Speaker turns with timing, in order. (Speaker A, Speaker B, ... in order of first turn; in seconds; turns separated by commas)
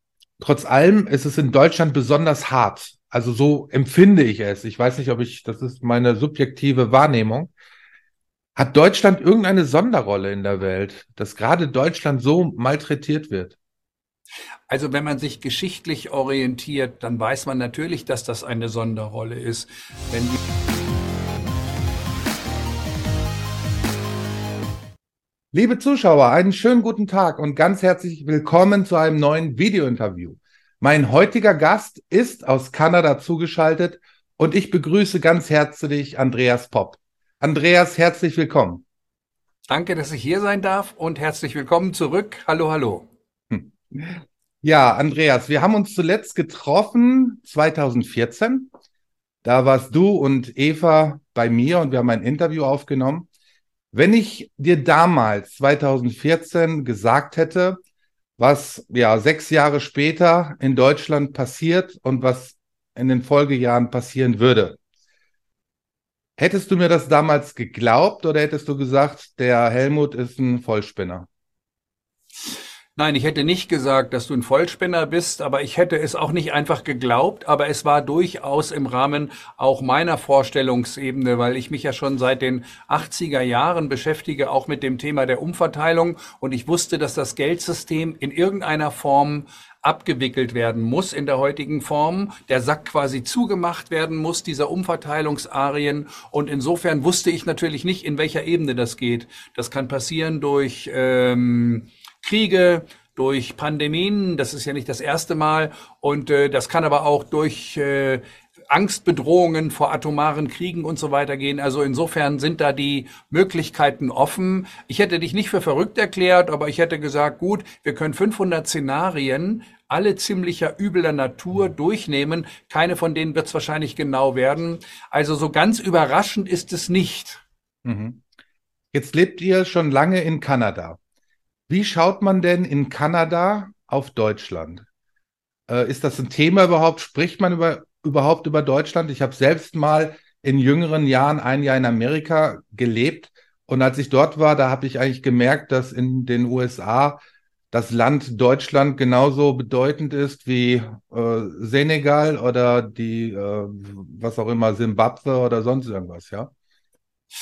Speaker A: 0.4-7.5, Speaker A: 8.6-13.6, Speaker B: 14.7-20.4, Speaker A: 25.5-38.8, Speaker B: 39.7-43.1, Speaker A: 43.5-48.7, Speaker A: 49.4-53.3, Speaker A: 53.9-57.8, Speaker A: 58.4-64.8, Speaker A: 66.4-71.3, Speaker B: 72.5-127.4, Speaker A: 127.8-128.2, Speaker A: 128.9-131.0, Speaker A: 131.7-134.8, Speaker A: 135.7-147.2, Speaker A: 147.7-156.5